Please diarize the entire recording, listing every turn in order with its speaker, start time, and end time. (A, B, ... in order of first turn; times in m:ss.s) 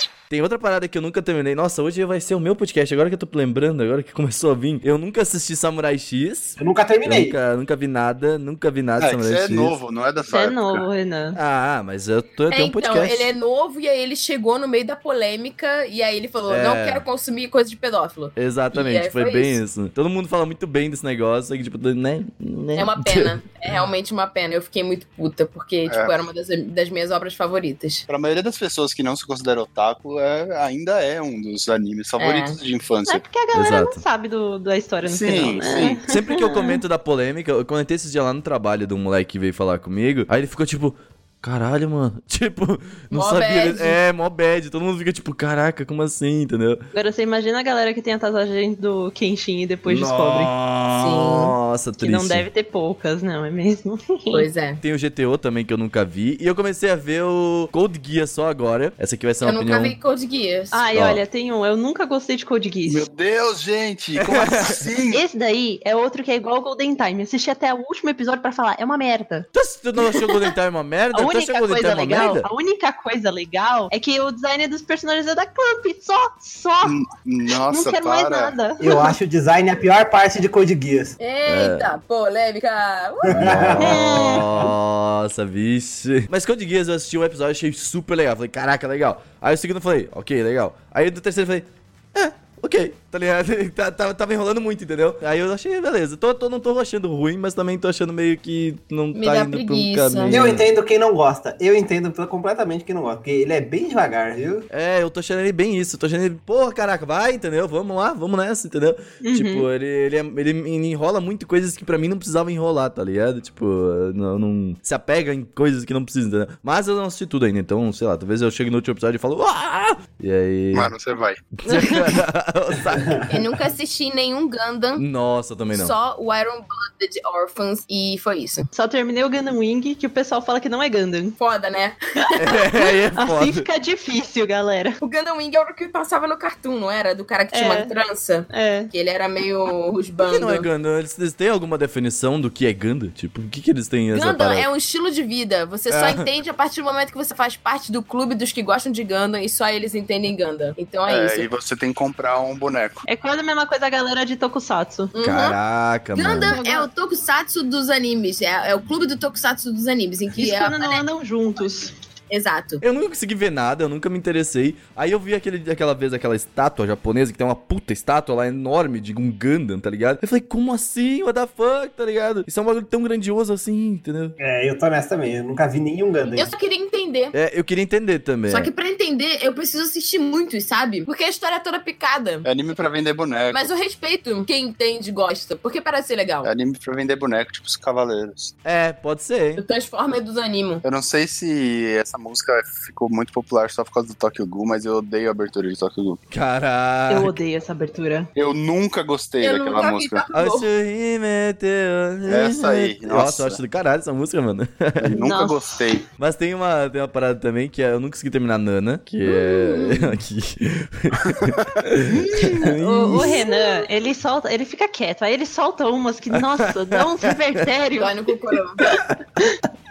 0:00.3-0:09.7 A
0:06.6-0:07.4 B
0:09.0-0:10.8 C
0:10.3-0:11.4 D
0:11.3-0:13.3 A
0:12.5-0:19.6 E
0:16.5-0:17.0 A
0:18.4-0:23.4 A
0:22.8-0:28.0 E
0:25.9-0:26.1 C
0:28.1-0:33.2 C
0:32.2-0:32.6 E
0:33.0-0:36.7 D
0:33.5-0:34.0 A
0:35.0-0:36.0 C
0:36.0-0:46.8 A
0:43.1-0:44.0 E
0:46.9-0:50.5 D
0:49.9-0:52.4 A
0:50.9-0:51.5 E
0:52.0-0:54.5 D
0:54.3-0:54.8 E
0:54.8-1:00.0 A
0:59.4-1:00.8 E
1:00.7-1:03.0 D
1:00.9-1:01.2 A
1:02.9-1:05.2 C
1:04.2-1:04.8 A
1:05.1-1:09.4 D
1:09.5-1:12.5 A
1:11.1-1:17.0 D
1:16.8-1:18.5 C
1:17.6-1:19.1 D
1:18.8-1:21.2 B
1:21.2-1:23.8 E
1:21.5-1:21.9 A
1:23.2-1:24.7 B
1:23.3-1:40.6 A
1:23.8-1:24.5 D
1:39.1-1:40.4 E
1:40.3-1:44.6 B
1:44.7-2:00.9 A
1:49.2-1:49.7 D
2:00.7-2:01.5 C
2:01.6-2:03.4 A
2:01.6-2:02.2 D
2:02.9-2:03.2 B
2:03.3-2:05.0 E
2:05.0-2:05.9 A
2:05.7-2:08.7 E
2:08.7-2:11.4 D
2:11.4-2:12.6 E
2:12.4-2:13.6 A
2:13.1-2:15.0 D
2:15.0-2:20.7 E
2:17.5-2:17.9 D
2:18.5-2:18.9 D
2:20.2-2:24.7 A
2:24.1-2:31.5 E
2:25.9-2:26.2 A
2:31.1-2:33.0 C
2:33.1-2:35.1 D
2:35.1-2:35.6 E
2:35.2-2:36.5 A
2:36.1-2:41.0 E
2:36.4-2:36.9 D
2:40.3-2:41.9 D
2:42.3-2:42.8 E
2:42.8-2:54.3 A
2:54.4-2:56.5 B
2:56.3-2:57.3 E
2:57.3-2:58.7 A
2:58.5-3:02.4 E
3:02.4-3:03.6 C
3:03.5-3:06.5 E
3:06.4-3:08.5 C
3:08.6-3:09.6 A
3:09.6-3:10.8 E
3:10.8-3:16.2 C
3:16.3-3:17.3 A
3:17.1-3:18.3 D
3:18.3-3:20.2 C
3:19.4-3:20.7 E
3:20.3-3:25.2 A
3:22.2-3:23.6 C
3:25.0-3:26.0 C
3:25.1-3:25.6 D
3:26.2-3:33.5 A
3:29.2-3:30.1 E
3:32.1-3:32.7 C
3:32.7-3:38.3 D
3:36.6-3:37.6 A
3:38.0-3:38.8 E
3:39.0-3:39.5 D